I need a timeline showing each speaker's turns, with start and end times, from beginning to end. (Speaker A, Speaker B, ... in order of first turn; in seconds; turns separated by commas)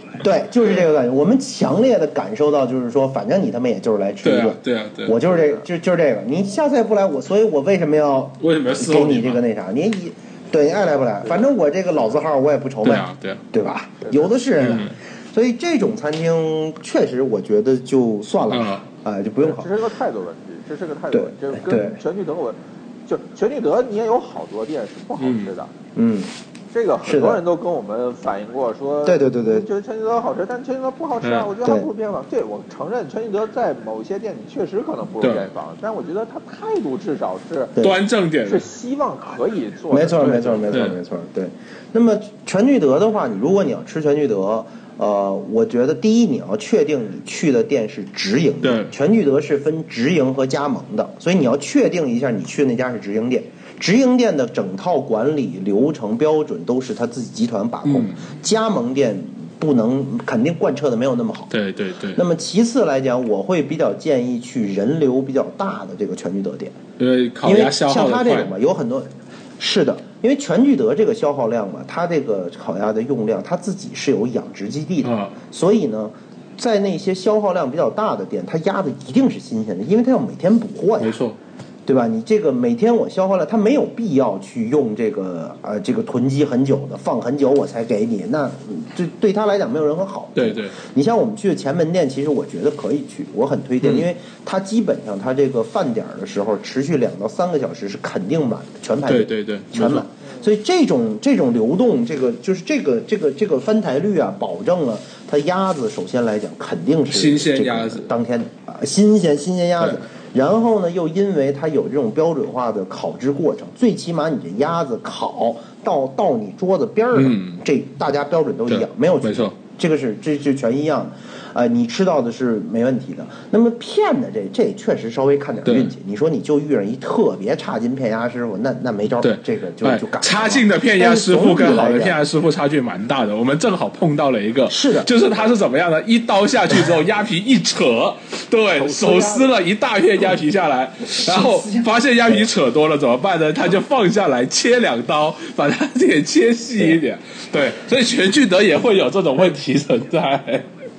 Speaker A: 0.2-19.8, Speaker B: 4.2-5.2, Speaker C: 5.3-5.6, Speaker B: 8.4-9.4, Speaker C: 11.2-11.5, Speaker B: 12.8-13.4, Speaker C: 14.0-14.3, Speaker B: 14.6-14.9, Speaker B: 18.5-18.8, Speaker C: 19.4-25.7, Speaker A: 21.1-22.0, Speaker B: 25.2-25.5, Speaker A: 25.9-26.3, Speaker C: 26.7-37.8, Speaker A: 27.0-27.4, Speaker A: 29.1-29.7, Speaker B: 31.2-31.5, Speaker B: 37.8-38.6, Speaker C: 38.4-40.8, Speaker A: 39.9-61.5, Speaker B: 40.2-41.0, Speaker B: 48.6-48.9, Speaker B: 57.8-58.2, Speaker B: 61.5-62.2, Speaker A: 62.1-66.8, Speaker B: 67.0-68.5, Speaker A: 67.4-81.2, Speaker B: 75.0-75.3, Speaker B: 81.0-81.4, Speaker A: 81.8-132.2, Speaker B: 90.3-90.8, Speaker B: 93.8-94.1, Speaker B: 99.1-100.0, Speaker C: 100.2-100.5, Speaker B: 107.1-108.1, Speaker B: 117.1-117.6, Speaker B: 118.7-119.5, Speaker B: 125.6-125.9, Speaker B: 129.2-150.7, Speaker A: 134.7-135.1, Speaker C: 138.7-139.5, Speaker A: 141.2-142.4